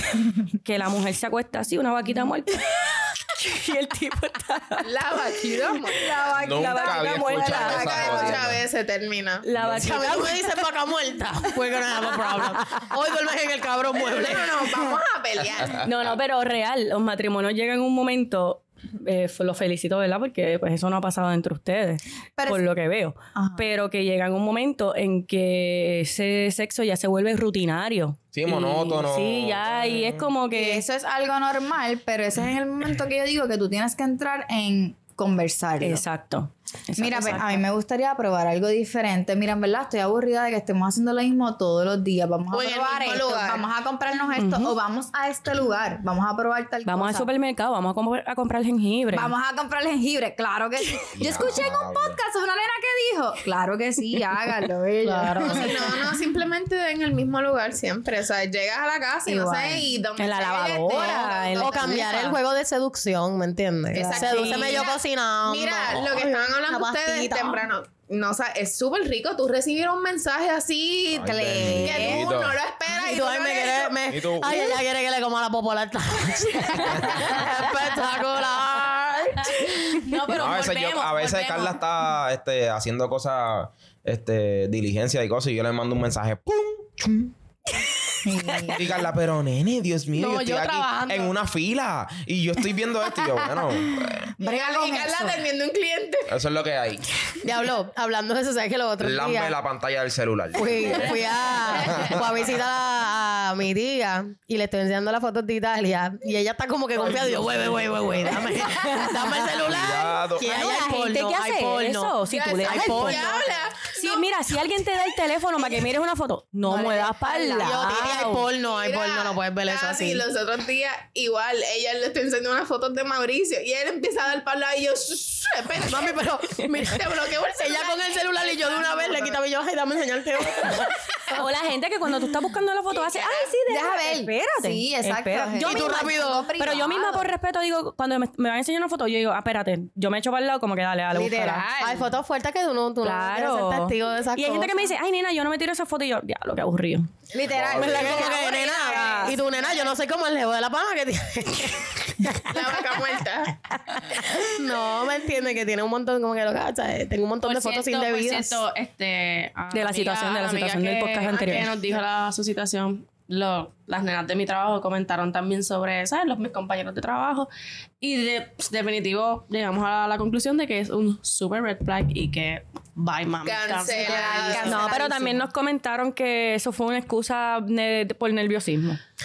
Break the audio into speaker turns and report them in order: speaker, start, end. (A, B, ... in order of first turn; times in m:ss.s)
0:00.6-0:04.9 A
0:04.8-0:06.1 B
0:05.9-0:08.5 C
0:06.3-0:08.6 D
0:06.4-0:08.0 A
0:07.8-0:09.5 B
0:09.4-0:10.6 A
0:09.6-0:10.0 D
0:09.7-0:14.8 E
0:14.0-0:15.9 B
0:15.4-0:16.2 D
0:15.8-0:30.8 A
0:22.4-0:22.6 C
0:23.4-0:23.6 C
0:28.3-0:30.3 D
0:30.5-0:36.0 C
0:35.8-0:37.6 A
0:37.0-0:47.3 C
0:42.5-0:43.7 B
0:44.4-0:44.7 A
0:46.9-0:49.3 A
0:49.1-0:55.9 C
0:51.2-0:52.2 D
0:55.0-0:55.9 E
0:55.4-1:02.1 B
0:59.3-0:59.9 C
1:00.2-1:02.4 A
1:00.9-1:07.6 E
1:03.9-1:04.8 C
1:04.0-1:11.3 B
1:04.4-1:04.8 A
1:11.1-1:12.6 D
1:11.2-1:12.2 C
1:11.8-1:14.0 B
1:13.0-1:20.0 E
1:14.1-1:14.7 D
1:16.8-1:17.5 D
1:20.0-1:21.8 F
1:20.3-1:27.3 D
1:28.2-1:28.8 C
1:28.7-1:34.3 D
1:30.2-1:31.3 F
1:34.4-1:35.4 C
1:34.4-1:36.3 B
1:36.3-1:37.1 D
1:37.4-1:39.5 E
1:39.0-1:42.5 D
1:40.6-1:53.4 E
1:48.8-1:49.5 A
1:49.6-1:50.6 D
1:50.4-1:58.5 A
1:52.3-1:54.2 B
1:56.7-1:58.1 C
1:56.8-2:00.2 E
1:58.5-2:06.2 B
2:05.9-2:11.4 E
2:06.8-2:09.2 B
2:11.3-2:21.7 A
2:12.9-2:13.5 B
2:13.7-2:17.3 C
2:15.6-2:16.5 E
2:21.1-2:22.1 C
2:21.8-2:24.7 E
2:23.0-2:27.1 A
2:27.3-2:29.4 C
2:27.4-2:28.2 D
2:27.7-2:33.1 E
2:27.8-2:29.4 A
2:32.5-2:33.6 B
2:34.0-2:38.6 E
2:37.4-2:47.5 F
2:39.7-2:41.7 A
2:48.0-2:54.8 F
2:53.4-2:54.9 B
2:54.0-2:55.4 C
2:54.5-2:59.0 A